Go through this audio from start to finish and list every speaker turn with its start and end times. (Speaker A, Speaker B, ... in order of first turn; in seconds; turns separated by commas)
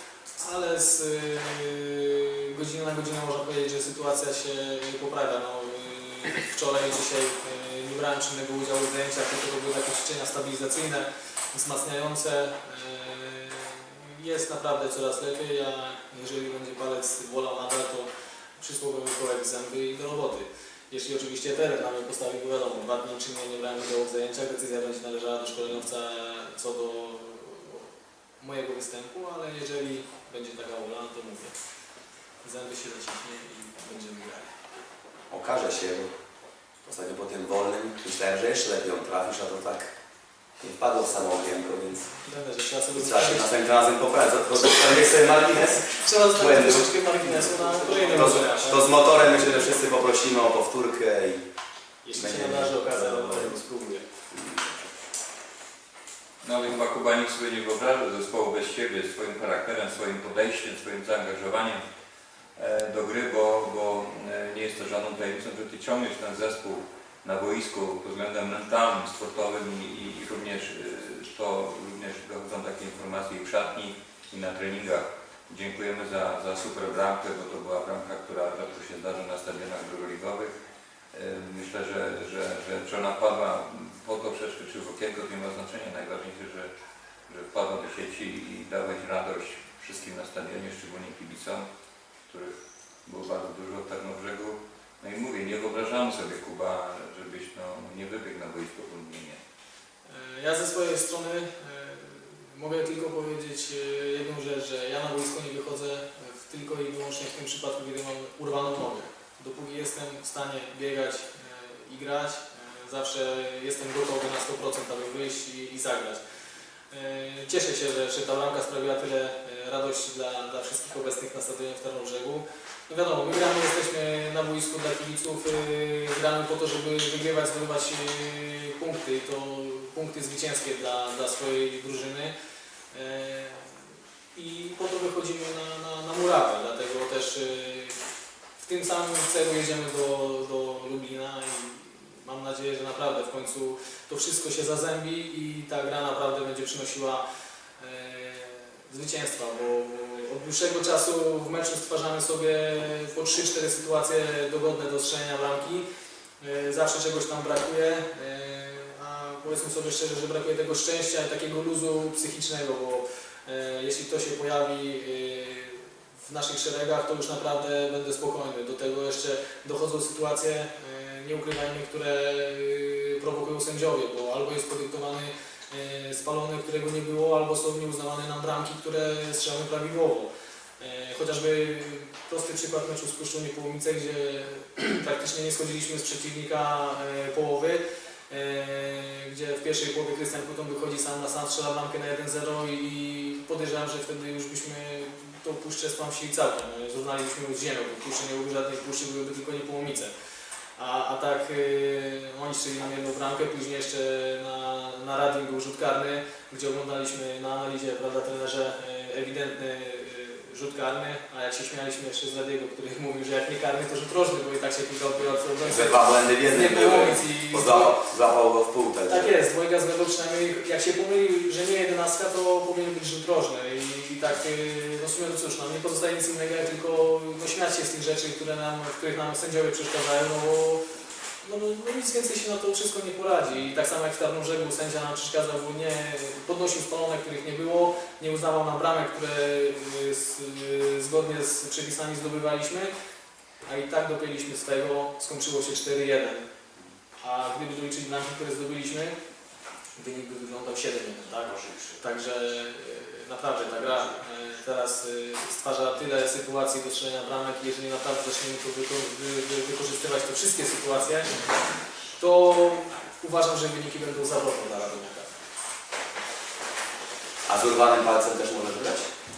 Speaker A: 0.4-27.9, Speaker A: 28.4-31.5, Speaker A: 32.4-34.6, Speaker B: 35.3-36.1, Speaker B: 36.8-39.9, Speaker B: 40.6-42.1, Speaker A: 42.2-43.5, Speaker B: 42.9-51.4, Speaker A: 45.9-49.7, Speaker A: 52.0-54.0, Speaker B: 52.1-53.5, Speaker B: 54.3-54.9, Speaker C: 56.4-61.8, Speaker C: 62.5-80.5, Speaker C: 81.1-86.7, Speaker C: 87.3-91.7, Speaker C: 92.3-92.5, Speaker C: 93.0-99.4, Speaker A: 100.0-116.2, Speaker A: 116.9-132.3, Speaker A: 132.9-138.0, Speaker A: 138.6-147.2, Speaker A: 147.8-155.8, Speaker A: 156.4-180.3, Speaker A: 180.8-200.1, Speaker A: 200.8-218.0, Speaker B: 215.6-219.4, Speaker A: 219.1-230.8, Speaker A: 231.4-242.9, Speaker A: 243.6-246.4, Speaker A: 247.2-249.2, Speaker A: 249.9-261.5, Speaker B: 251.5-252.0, Speaker A: 262.2-265.3, Speaker B: 267.5-269.1